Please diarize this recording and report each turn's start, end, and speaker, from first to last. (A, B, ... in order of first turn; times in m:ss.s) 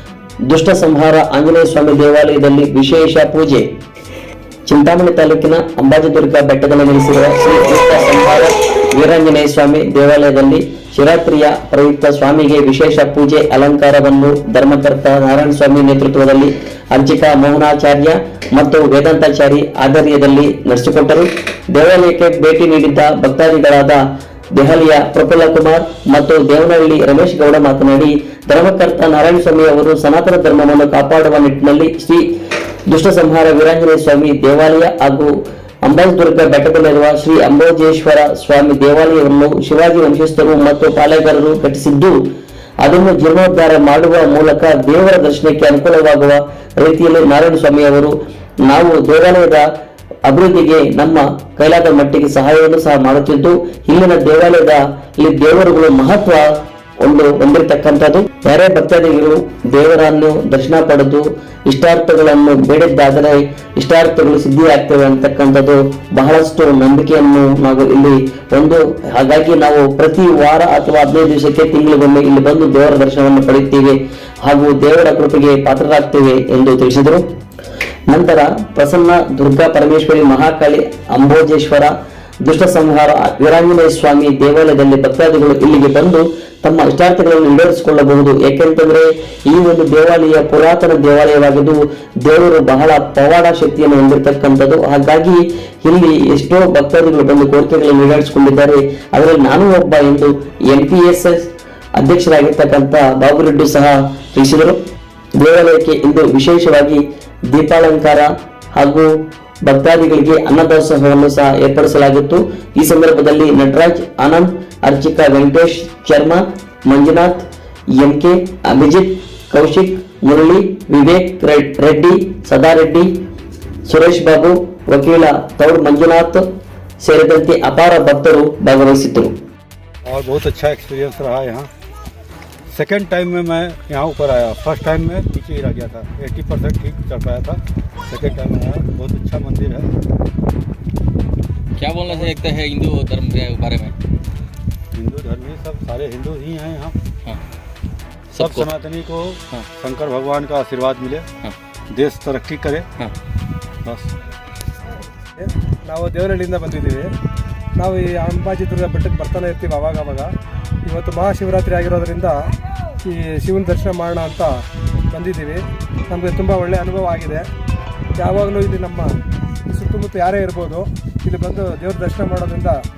0:00.4-0:03.7 A
0:04.7-0:24.0 A
0:24.5-0:32.3 A
0:32.9-0:35.3 A
0:35.8-0:42.2 A
0:42.8-0:49.6 A
0:50.2-1:17.2 A
1:18.1-1:21.9 A
1:22.4-1:41.5 A
1:42.0-1:44.8 A
1:45.4-1:49.1 A
1:49.6-1:57.5 A
1:58.0-2:03.1 A
2:03.8-2:06.4 A
2:07.0-2:09.3 A
2:10.0-2:11.7 B
2:12.7-2:19.9 B
2:21.8-2:23.9 C
2:22.1-2:22.4 B
2:24.9-2:27.0 B
2:28.3-2:31.3 B
2:28.3-2:28.7 C
2:31.9-2:32.9 B
2:33.8-2:34.1 B
2:35.4-2:37.1 D
2:37.8-2:40.3 D
2:40.8-2:42.4 D
2:43.0-2:44.6 D
2:45.1-2:47.4 D
2:48.2-2:49.1 D
2:49.7-2:52.8 D